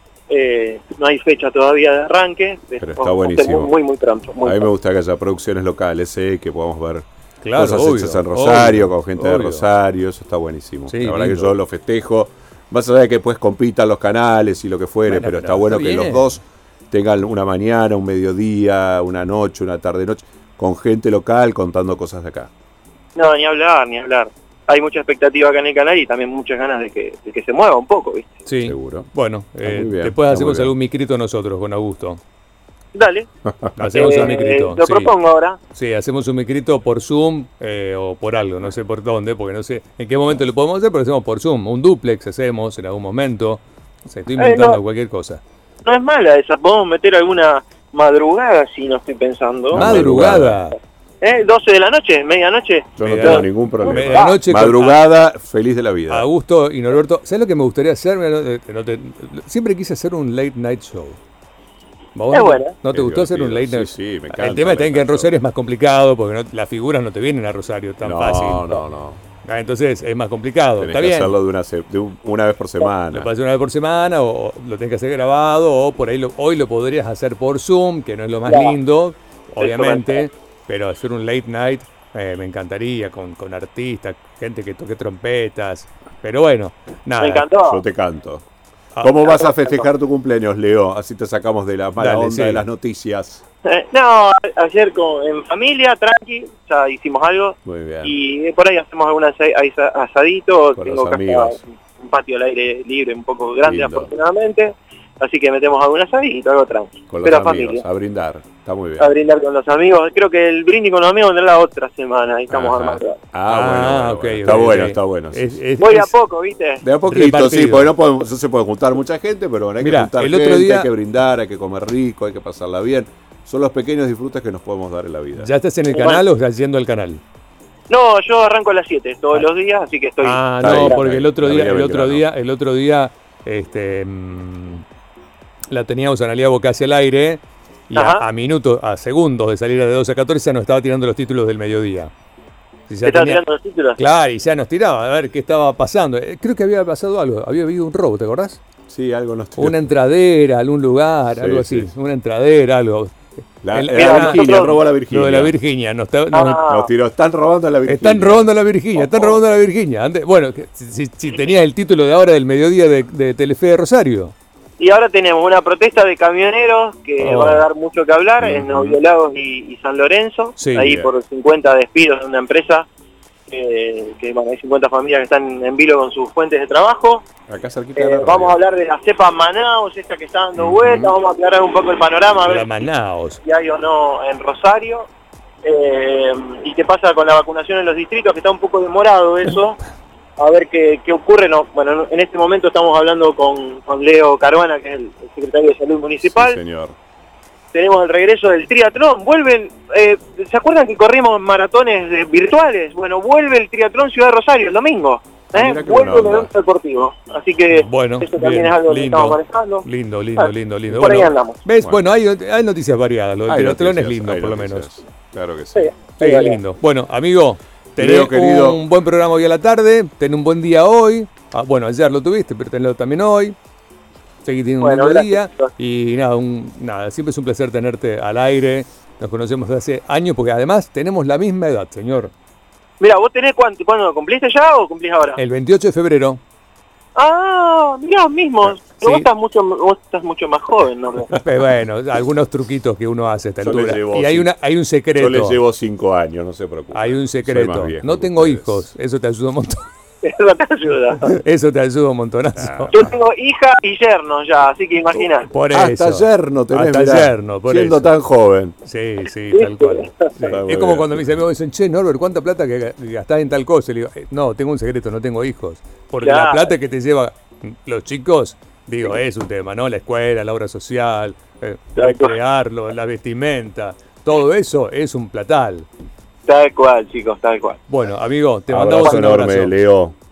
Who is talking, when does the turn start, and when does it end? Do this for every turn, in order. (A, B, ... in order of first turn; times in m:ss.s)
0:00.3-0:04.7 A
0:02.8-0:03.7 B
0:04.4-0:22.5 B
0:07.4-0:09.6 C
0:10.9-0:11.5 C
0:15.1-0:16.3 C
0:23.2-0:28.4 A
0:28.4-0:32.2 C
0:28.6-0:30.7 B
0:32.9-0:33.3 A
0:33.4-0:34.0 B
0:33.8-0:35.1 C
0:33.9-0:35.6 A
0:35.7-0:45.4 C
0:44.4-0:44.8 A
0:45.8-0:50.1 A
0:49.7-0:50.6 B
0:49.7-0:50.8 C
0:51.2-0:54.4 A
0:53.0-0:56.2 B
0:53.0-0:55.0 C
0:56.1-1:01.2 C
1:02.1-1:08.8 C
1:02.3-1:02.7 A
1:02.9-1:05.3 B
1:08.0-1:09.2 B
1:09.4-1:11.3 C
1:10.8-1:13.3 B
1:13.1-1:27.4 C
1:18.5-1:18.8 A
1:19.6-1:20.2 A
1:27.2-1:27.8 A
1:27.7-1:28.4 B
1:29.0-1:33.4 B
1:29.2-1:29.9 A
1:32.0-1:32.6 C
1:33.6-1:47.8 A
1:37.6-1:38.2 B
1:40.8-1:41.6 B
1:43.6-1:44.1 B
1:47.1-1:49.1 B
1:49.0-1:53.2 A
1:52.5-1:55.6 B
1:53.5-1:56.1 C
1:55.8-1:56.8 A
1:56.8-2:05.5 B
1:57.0-1:57.9 C
1:59.8-2:00.9 C
2:05.4-2:07.2 C
2:05.9-2:06.2 A
2:07.9-2:11.0 A
2:10.2-2:14.8 C
2:10.6-2:12.2 B
2:15.7-2:22.1 C
2:17.9-2:18.2 A
2:22.9-2:23.4 C
2:23.0-2:24.0 A
2:24.0-2:28.6 C
2:28.9-2:29.9 B
2:29.6-2:33.1 C
2:31.4-2:31.9 B
2:33.6-2:35.5 B
2:33.7-2:36.6 C
2:33.9-2:34.8 A
2:36.3-2:36.9 A
2:36.6-2:38.5 B
2:37.9-2:44.3 C
2:38.9-2:39.4 A
2:44.8-2:52.9 A
2:47.2-2:47.6 C
2:48.4-2:49.0 B
2:50.6-2:50.9 C
2:50.8-2:51.1 B
2:53.5-2:57.2 A
2:57.5-2:58.6 B
2:58.0-3:02.7 A
3:00.6-3:01.1 B
3:02.4-3:03.4 C
3:03.4-3:05.1 A
3:05.6-3:09.8 A
3:10.4-3:16.6 A
3:16.2-3:16.9 B
3:17.7-3:31.6 A
3:25.5-3:26.5 B
3:27.7-3:34.9 C
3:33.5-3:35.9 B
3:35.7-3:36.6 A
3:36.2-3:43.5 C
3:38.0-3:38.8 B
3:44.4-3:52.3 C
3:44.8-3:45.7 A
3:53.0-3:55.4 A
3:55.4-3:56.4 C
3:57.2-4:01.4 A
3:59.0-3:59.3 C
4:01.3-4:05.6 C
4:03.6-4:04.5 B
4:05.2-4:08.8 B
4:06.9-4:09.9 C
4:10.2-4:11.3 A
4:11.2-4:12.9 C
4:12.6-4:13.1 B
4:12.9-4:15.5 A
4:15.5-4:18.1 C
4:15.7-4:18.8 B
4:18.8-4:35.9 C
4:19.5-4:20.3 A
4:20.5-4:21.3 B
4:26.2-4:26.7 A
4:32.0-4:32.4 A
4:36.5-4:37.8 A
4:37.9-4:39.7 C
4:38.7-4:40.1 B
4:39.0-4:39.4 A